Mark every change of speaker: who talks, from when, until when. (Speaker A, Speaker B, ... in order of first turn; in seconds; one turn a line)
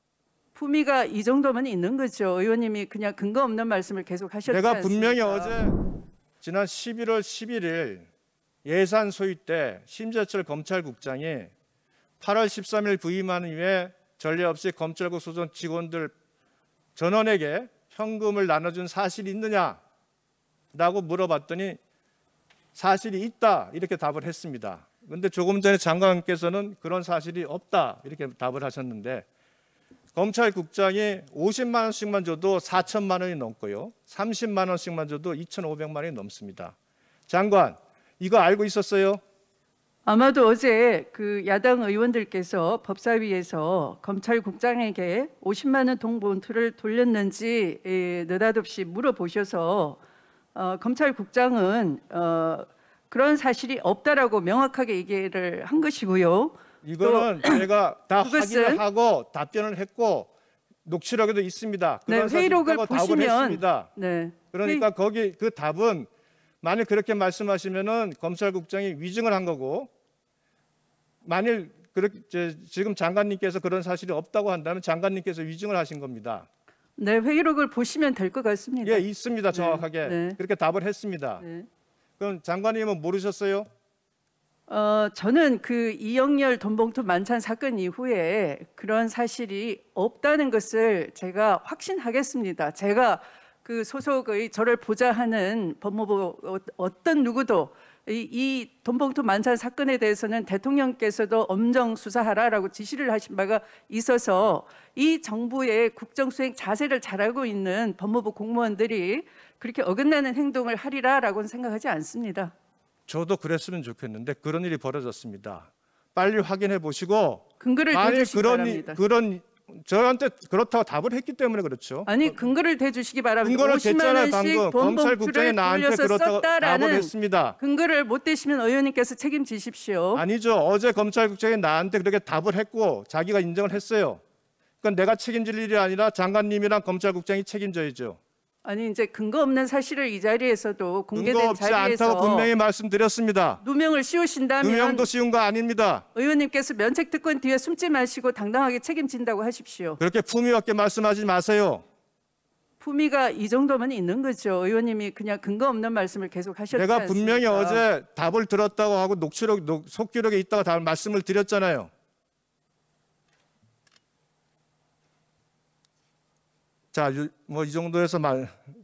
Speaker A: 0.6-5.6
Speaker B: 4.5-5.8
Speaker B: 6.4-8.1
Speaker B: 8.7-11.5
Speaker B: 12.2-16.1
Speaker B: 17.0-19.8
Speaker B: 20.7-21.8
Speaker B: 22.8-29.3
Speaker B: 30.1-36.8
Speaker B: 37.3-39.2
Speaker A: 40.1-50.0
Speaker A: 50.5-57.6
Speaker B: 56.8-60.3
Speaker A: 58.2-58.8
Speaker B: 60.9-63.9
Speaker A: 62.1-64.9
Speaker B: 64.5-66.1
Speaker B: 66.6-69.9
Speaker B: 71.2-76.5
Speaker A: 77.0-80.4
Speaker B: 78.8-81.4
Speaker A: 81.4-81.7
Speaker B: 82.2-83.7
Speaker A: 84.7-112.5
Speaker B: 113.1-122.4
Speaker A: 117.6-119.0
Speaker A: 122.1-130.2
Speaker B: 123.4-127.6
Speaker B: 130.2-134.2
Speaker B: 134.8-138.2
Speaker A: 138.7-142.5
Speaker B: 141.2-143.6
Speaker A: 143.6-145.1
Speaker B: 144.6-146.1
Speaker A: 146.2-150.0
Speaker B: 150.0-151.8
Speaker A: 152.8-157.8
Speaker B: 156.7-161.9
Speaker B: 166.9-168.5